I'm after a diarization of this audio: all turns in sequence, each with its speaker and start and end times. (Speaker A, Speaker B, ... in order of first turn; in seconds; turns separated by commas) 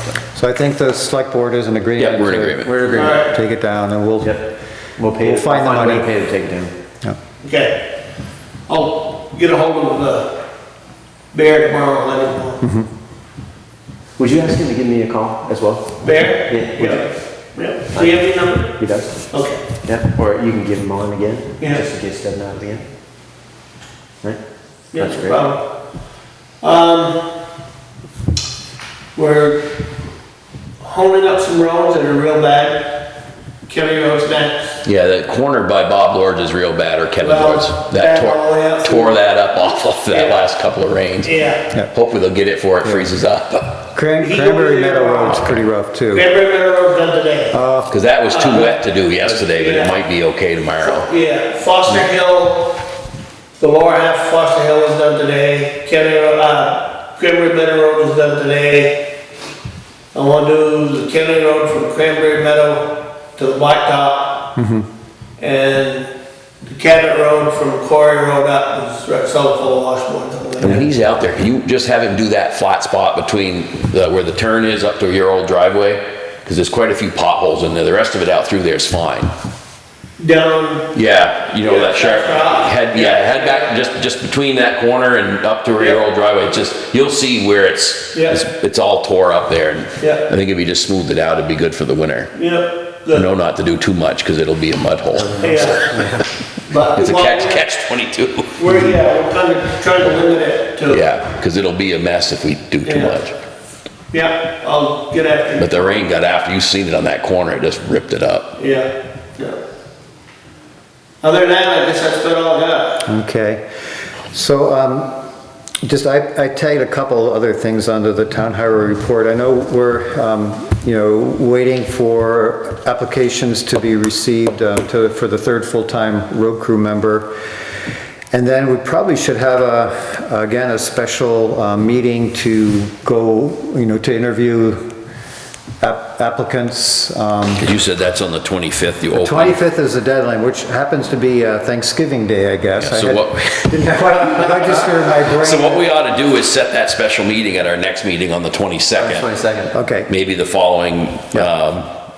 Speaker A: 0.3-4.4, Speaker B: 2.0-2.9, Speaker C: 2.6-3.2, Speaker D: 2.9-3.4, Speaker C: 4.2-6.7, Speaker A: 5.2-6.1, Speaker D: 7.4-7.8, Speaker D: 8.7-10.3, Speaker D: 11.3-12.6, Speaker A: 12.6-12.9, Speaker C: 14.2-17.0, Speaker D: 16.0-19.6, Speaker C: 17.9-19.3, Speaker C: 19.8-22.9, Speaker D: 21.6-21.9, Speaker D: 24.9-25.6, Speaker C: 24.9-25.5, Speaker D: 26.6-27.2, Speaker D: 29.2-29.7, Speaker D: 30.8-33.0, Speaker D: 33.7-34.8, Speaker B: 34.8-41.3, Speaker D: 37.2-39.2, Speaker D: 40.1-40.5, Speaker D: 41.2-41.7, Speaker B: 41.9-43.9, Speaker A: 43.9-46.3, Speaker D: 44.2-45.5, Speaker D: 46.1-47.6, Speaker A: 47.5-48.0, Speaker B: 47.9-51.1, Speaker D: 48.3-48.8, Speaker D: 49.3-50.0, Speaker D: 50.8-52.8, Speaker D: 53.6-59.0, Speaker D: 60.1-64.5, Speaker A: 64.6-64.9, Speaker D: 65.4-66.1, Speaker D: 66.6-70.9, Speaker B: 70.6-79.3, Speaker D: 80.2-80.9, Speaker B: 80.9-92.3, Speaker D: 81.6-83.8, Speaker D: 88.1-88.4, Speaker D: 92.3-93.3, Speaker B: 93.1-96.1, Speaker C: 95.2-96.2, Speaker D: 95.4-95.9, Speaker D: 96.7-97.7, Speaker B: 96.9-98.6, Speaker D: 98.6-101.0, Speaker B: 100.9-103.4, Speaker D: 102.8-103.2, Speaker D: 104.1-105.9, Speaker B: 105.6-108.5, Speaker D: 108.6-109.6, Speaker D: 111.2-113.1, Speaker A: 113.1-113.6, Speaker A: 114.3-115.2, Speaker A: 115.8-127.3, Speaker A: 128.3-134.8, Speaker A: 135.8-137.7, Speaker B: 137.6-139.6, Speaker A: 139.1-145.8, Speaker B: 142.8-149.3, Speaker C: 144.5-145.0, Speaker C: 149.0-149.8, Speaker A: 149.7-150.1, Speaker B: 150.1-151.9